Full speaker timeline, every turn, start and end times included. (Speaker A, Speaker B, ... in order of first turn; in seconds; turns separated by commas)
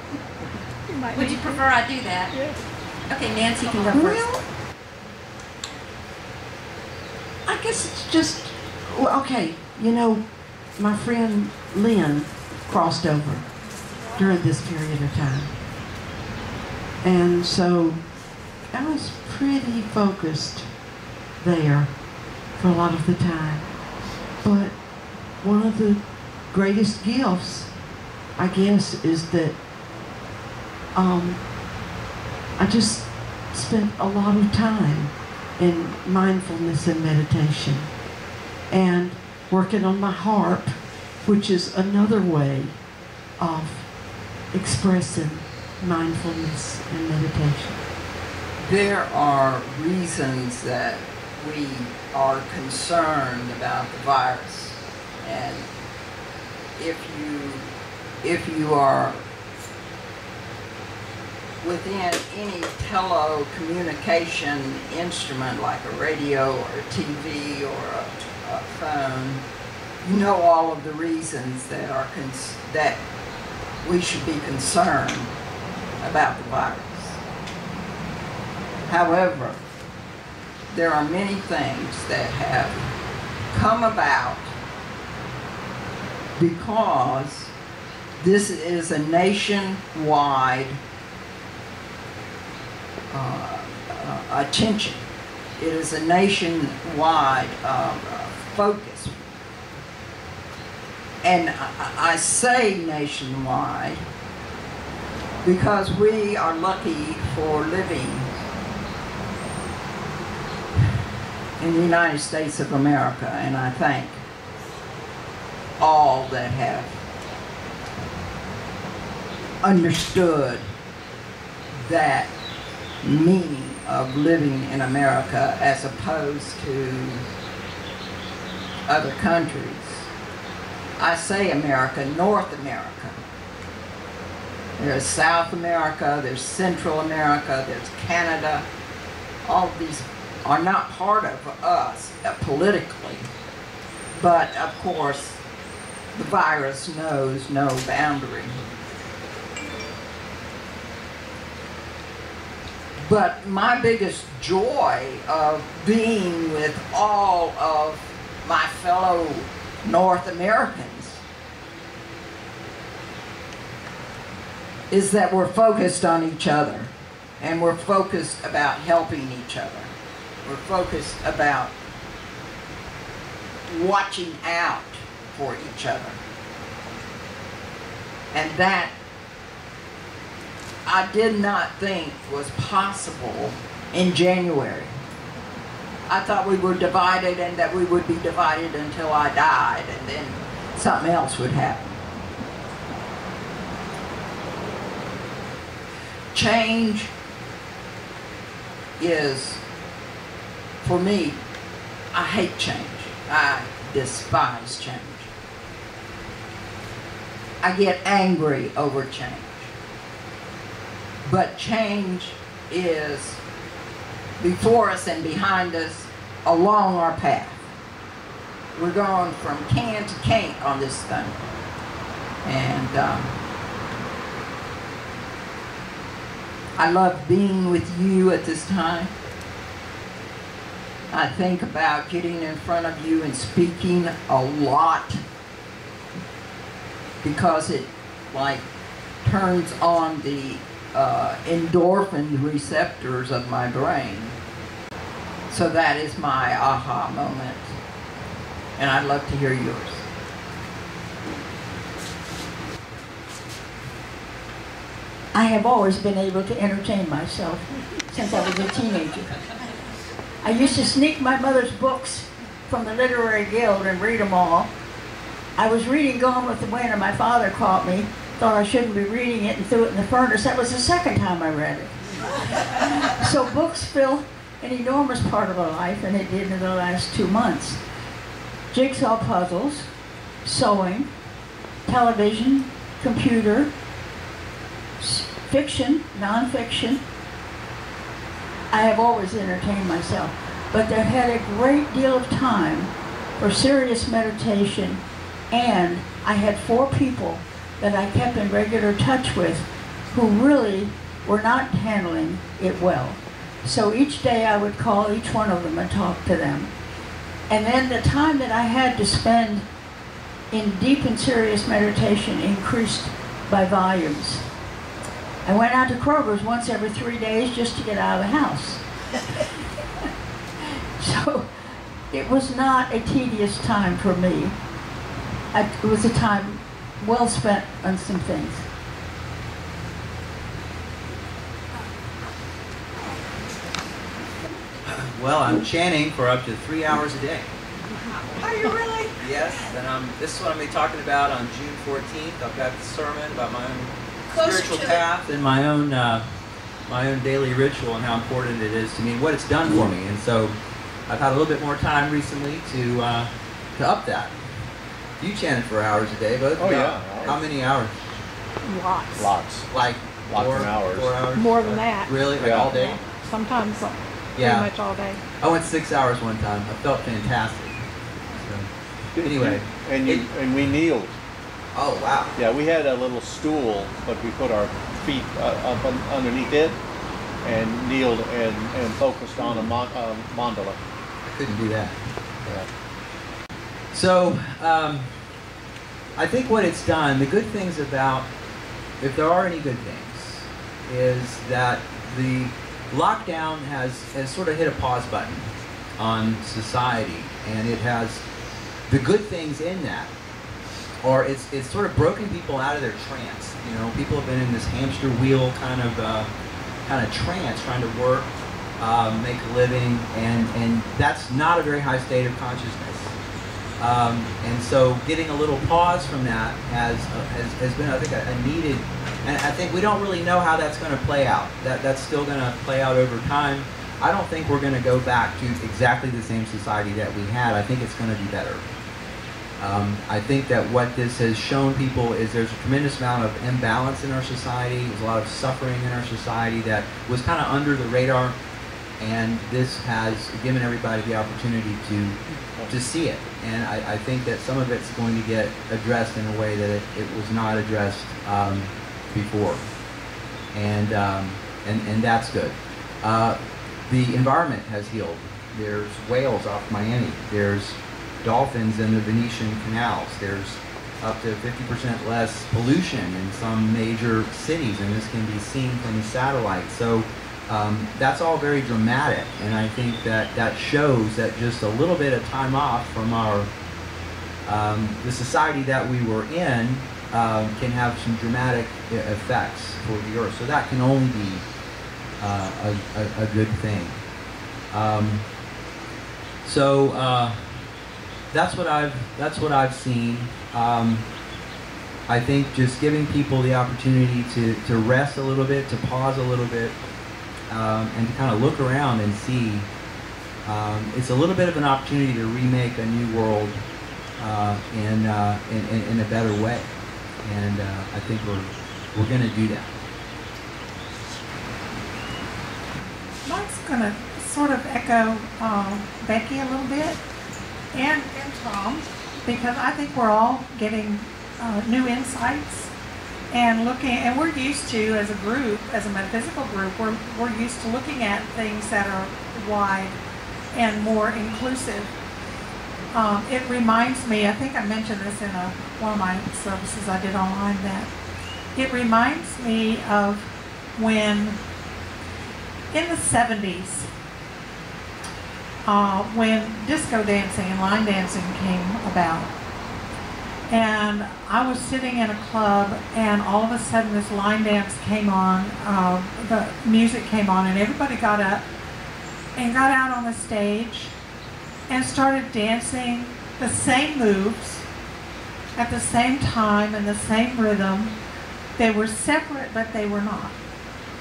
Speaker A: 0.9-1.6, Speaker B: 1.1-2.4, Speaker A: 2.3-2.6, Speaker B: 3.1-4.4, Speaker C: 3.9-4.4, Speaker C: 7.4-15.9, Speaker C: 17.0-20.8, Speaker C: 21.4-29.6, Speaker C: 30.9-31.6, Speaker C: 32.6-38.0, Speaker C: 38.7-42.9, Speaker C: 43.4-47.9, Speaker D: 48.6-55.7, Speaker D: 56.8-57.7, Speaker D: 58.2-59.2, Speaker D: 61.6-69.4, Speaker D: 70.0-73.0, Speaker D: 73.8-75.3, Speaker D: 76.0-77.2, Speaker D: 78.9-79.6, Speaker D: 80.7-82.8, Speaker D: 83.5-84.5, Speaker D: 86.4-87.5, Speaker D: 88.2-90.8, Speaker D: 93.1-95.0, Speaker D: 95.6-99.3, Speaker D: 101.2-104.0, Speaker D: 105.4-108.3, Speaker D: 111.6-114.2, Speaker D: 115.8-117.0, Speaker D: 119.6-120.7, Speaker D: 121.7-122.3, Speaker D: 123.0-127.2, Speaker D: 128.9-130.1, Speaker D: 131.0-133.2, Speaker D: 134.8-138.7, Speaker D: 139.4-143.3, Speaker D: 144.2-145.4, Speaker D: 146.1-148.6, Speaker D: 153.0-161.2, Speaker D: 164.9-169.9, Speaker D: 170.4-171.7, Speaker D: 173.7-176.2, Speaker D: 178.3-178.9, Speaker D: 180.8-184.9, Speaker D: 186.1-192.0, Speaker D: 196.3-197.1, Speaker D: 199.0-199.6, Speaker D: 200.8-201.4, Speaker D: 202.1-205.3, Speaker D: 207.6-209.7, Speaker D: 211.2-213.4, Speaker D: 214.4-217.7, Speaker D: 218.8-221.4, Speaker D: 222.4-223.3, Speaker D: 226.8-229.1, Speaker D: 231.1-235.2, Speaker D: 237.2-238.6, Speaker D: 239.2-244.3, Speaker D: 245.5-247.7, Speaker D: 248.8-250.0, Speaker E: 255.3-259.5, Speaker E: 260.4-264.7, Speaker E: 265.6-271.9, Speaker E: 272.5-277.8, Speaker E: 278.7-279.9, Speaker E: 280.4-281.1, Speaker E: 281.8-283.7, Speaker E: 285.0-287.0, Speaker E: 288.7-306.7, Speaker E: 307.5-309.6, Speaker E: 310.5-314.5, Speaker E: 315.4-318.8, Speaker E: 321.0-324.6, Speaker E: 325.5-328.7, Speaker F: 334.8-337.5, Speaker F: 339.2-346.2, Speaker F: 346.9-354.3, Speaker F: 355.2-357.9, Speaker G: 356.6-357.4, Speaker A: 358.6-359.3, Speaker G: 359.1-359.7, Speaker F: 359.7-363.0, Speaker G: 360.3-361.8, Speaker A: 361.3-365.2, Speaker G: 362.4-362.7, Speaker F: 364.4-364.7, Speaker F: 365.4-367.8, Speaker F: 368.4-368.7, Speaker G: 369.1-371.1, Speaker F: 369.2-370.3, Speaker F: 371.7-372.3, Speaker G: 372.4-376.8, Speaker G: 377.4-380.8, Speaker F: 379.4-379.7, Speaker F: 381.3-382.5, Speaker G: 382.4-382.7, Speaker F: 383.9-385.1, Speaker F: 386.1-388.3, Speaker F: 389.0-398.2, Speaker F: 398.9-400.1, Speaker F: 401.0-406.3, Speaker F: 406.8-413.2, Speaker F: 413.8-428.6, Speaker F: 429.6-438.4, Speaker F: 439.0-449.8, Speaker G: 442.3-442.8, Speaker F: 450.5-473.5, Speaker F: 474.4-481.5, Speaker F: 482.2-484.1, Speaker F: 484.7-485.2, Speaker F: 486.4-487.6, Speaker F: 488.3-491.1, Speaker F: 492.1-496.8, Speaker F: 497.5-499.7, Speaker F: 500.4-503.6, Speaker F: 504.2-509.7, Speaker A: 513.2-517.0, Speaker A: 517.7-522.7, Speaker A: 523.3-530.0, Speaker A: 530.5-531.9, Speaker A: 532.9-537.9, Speaker A: 538.5-541.4, Speaker A: 542.7-543.9, Speaker A: 545.6-549.3, Speaker A: 550.5-558.4, Speaker A: 559.4-560.9, Speaker A: 561.7-564.6, Speaker A: 565.6-567.9, Speaker A: 568.6-570.3